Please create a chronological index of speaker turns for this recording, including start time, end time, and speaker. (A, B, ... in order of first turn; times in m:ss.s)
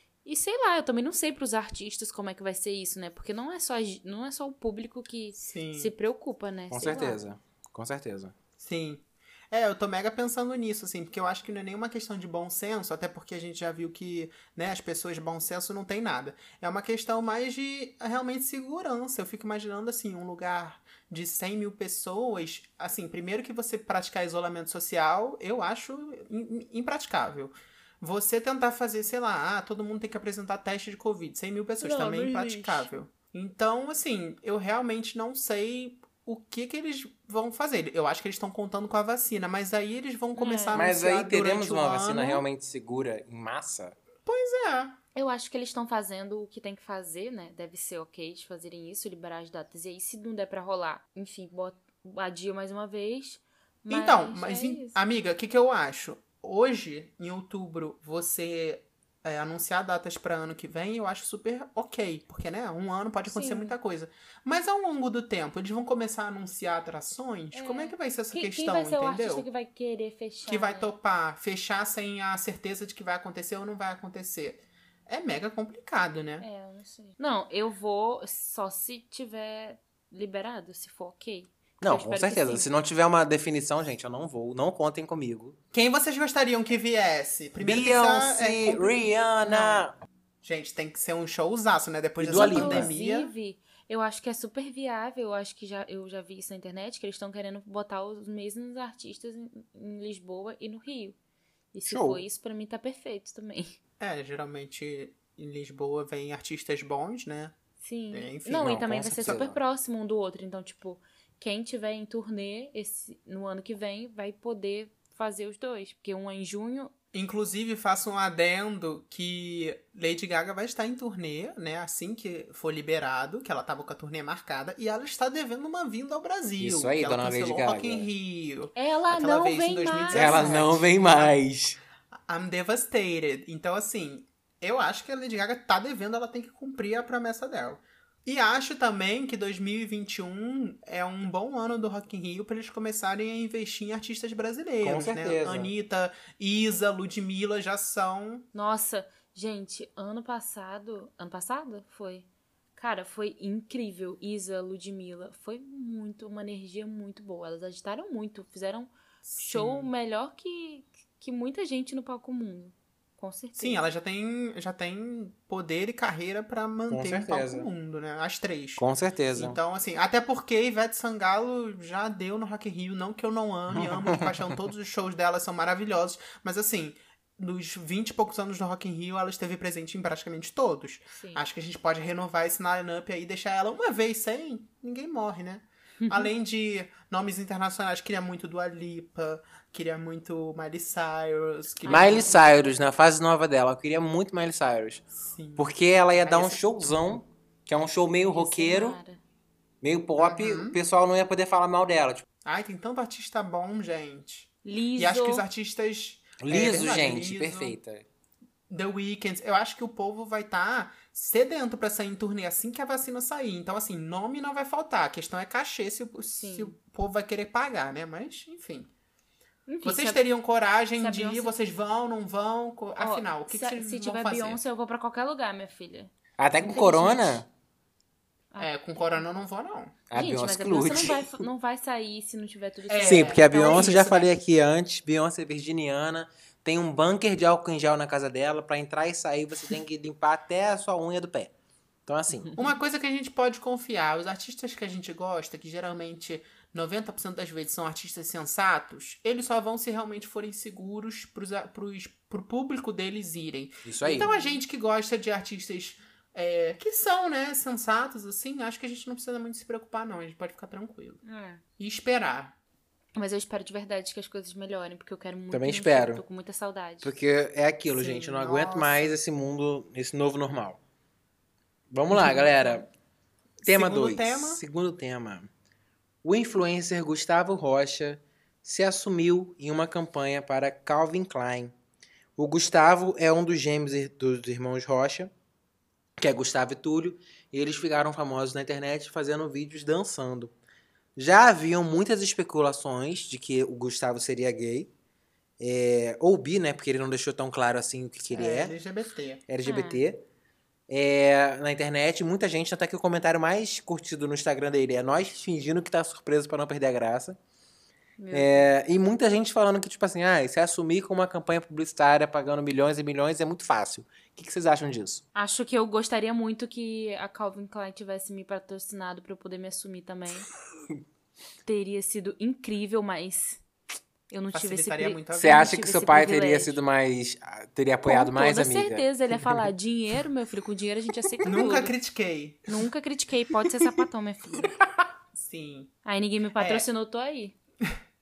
0:00.2-0:07.2 A
0:05.4-0:05.9 B
0:06.7-0:08.3 C
0:08.6-0:42.4 B
0:31.8-0:32.9 A
0:40.4-0:40.9 A
0:40.7-0:44.0 C
0:44.2-0:45.0 B
0:45.1-0:55.0 A
0:53.9-1:09.4 B
1:03.3-1:03.7 A
1:07.5-1:10.9 A
1:10.5-1:16.4 B
1:16.4-1:22.7 A
1:21.8-1:25.6 C
1:25.7-1:29.8 B
1:27.6-1:29.9 C
1:30.4-1:33.3 B
1:32.2-1:32.9 C
1:32.3-1:41.2 A
1:41.7-1:43.8 A
1:41.8-1:42.2 C
1:44.0-1:47.5 B
1:47.8-1:56.9 A
1:48.1-1:49.4 B
1:48.6-1:49.6 C
1:57.1-2:11.3 B
2:06.6-2:08.1 C
2:08.7-2:10.6 A
2:10.1-2:11.8 C
2:12.3-2:28.5 B
2:24.8-2:25.7 C
2:28.5-2:43.8 A
2:39.2-2:39.9 B
2:43.6-3:12.4 B
2:46.9-2:47.7 C
2:48.8-2:49.6 C
2:53.7-2:54.4 C
3:01.1-3:01.4 A
3:06.0-3:06.3 A
3:11.8-3:12.5 A
3:11.9-3:15.0 C
3:15.2-3:17.0 B
3:15.6-3:19.0 C
3:18.3-3:19.2 A
3:19.8-3:22.2 C
3:20.2-3:20.8 B
3:22.4-3:27.8 B
3:24.6-3:25.4 A
3:26.4-3:28.0 C
3:28.7-3:38.9 B
3:36.4-3:36.7 A
3:39.7-3:40.2 A
3:39.8-3:44.6 B
3:41.0-3:41.5 A
3:42.9-3:47.4 A
3:46.4-3:47.4 C
3:48.5-3:49.2 A
3:48.6-3:50.0 B
3:50.1-3:51.4 C
3:50.1-3:54.1 A
3:52.9-3:54.3 B
3:53.0-4:01.5 C
4:02.0-4:02.5 C
4:02.5-4:21.2 B
4:13.8-4:14.3 C
4:14.2-4:14.6 A
4:21.2-4:21.6 A
4:21.8-4:22.5 B
4:23.2-4:27.1 A
4:25.5-4:26.2 C
4:27.0-4:30.8 C
4:27.9-4:29.2 B
4:31.9-4:32.9 C
4:32.2-4:32.4 B
4:32.2-4:32.8 A
4:33.6-4:34.6 B
4:33.6-4:35.5 C
4:36.2-4:41.7 C
4:42.4-4:45.3 C
4:46.2-4:50.5 C
4:51.2-4:54.9 C
4:55.6-4:58.7 C
4:58.3-4:59.4 B
4:59.5-5:00.2 C
4:59.6-5:00.0 A
5:00.9-5:07.4 C
5:08.2-5:08.7 A
5:08.3-5:15.2 C
5:15.3-5:20.5 A
5:21.6-5:23.6 A
5:24.3-5:26.8 A
5:24.5-5:25.7 B
5:25.3-5:29.6 C
5:28.0-5:31.9 A
5:31.4-5:32.8 B
5:32.7-5:34.8 A
5:35.3-5:35.9 B
5:36.0-5:37.6 A
5:36.6-5:36.9 B